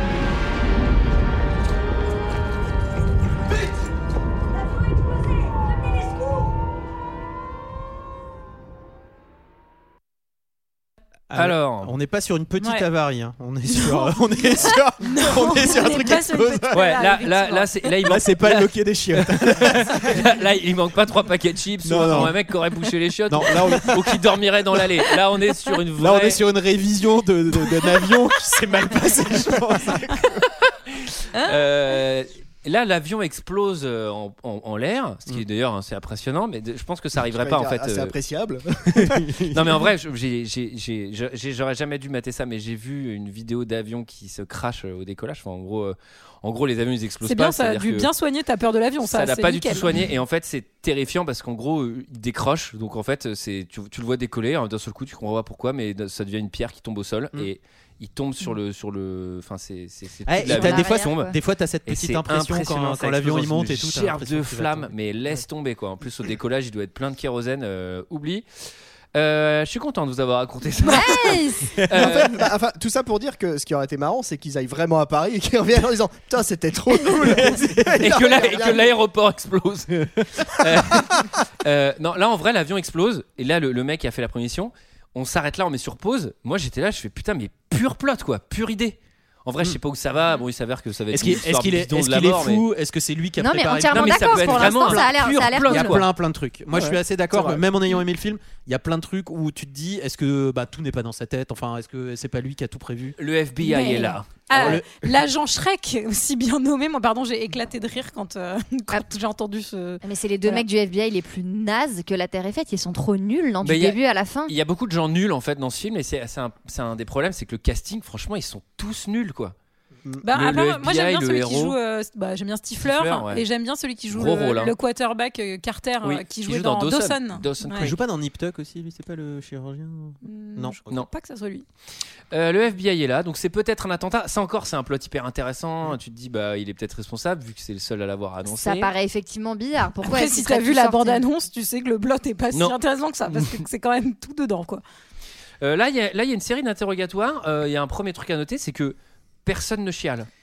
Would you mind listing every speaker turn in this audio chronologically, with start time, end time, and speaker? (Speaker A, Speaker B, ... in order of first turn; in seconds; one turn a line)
Speaker A: 11.3-17.0
Speaker B: 11.3-11.9
Speaker C: 12.6-12.9
Speaker C: 13.7-17.7
Speaker B: 16.7-26.4
Speaker A: 18.0-20.2
Speaker A: 21.8-22.4
Speaker A: 23.3-24.4
Speaker A: 26.0-30.4
Speaker B: 30.4-38.1
Speaker D: 37.3-39.3
Speaker A: 39.0-39.7
Speaker B: 39.5-48.1
Speaker C: 47.2-50.0
Speaker B: 49.1-61.3
Speaker A: 60.3-64.9
Speaker E: 60.4-61.4
Speaker B: 61.9-68.5
Speaker B: 69.1-71.3
Speaker E: 70.9-71.8
Speaker A: 71.7-72.1
Speaker B: 71.9-72.4
Speaker D: 72.0-78.9
Speaker A: 77.2-78.8
Speaker B: 78.0-92.6
Speaker A: 80.2-80.5
Speaker A: 91.1-103.1
Speaker E: 93.4-96.0
Speaker B: 93.9-96.1
Speaker D: 96.7-97.6
Speaker B: 103.2-104.8
Speaker E: 103.7-104.1
Speaker C: 103.7-110.6
Speaker A: 104.5-105.1
Speaker E: 110.0-114.5
Speaker B: 113.6-119.5
Speaker C: 120.2-127.9
Speaker B: 120.3-121.8
Speaker B: 122.8-123.4
Speaker B: 124.1-124.7
Speaker B: 126.0-128.0
Speaker A: 127.8-130.8
Speaker C: 130.2-131.7
Speaker B: 132.3-138.9
Speaker E: 138.5-141.2
Speaker C: 140.0-144.8
Speaker B: 145.6-150.3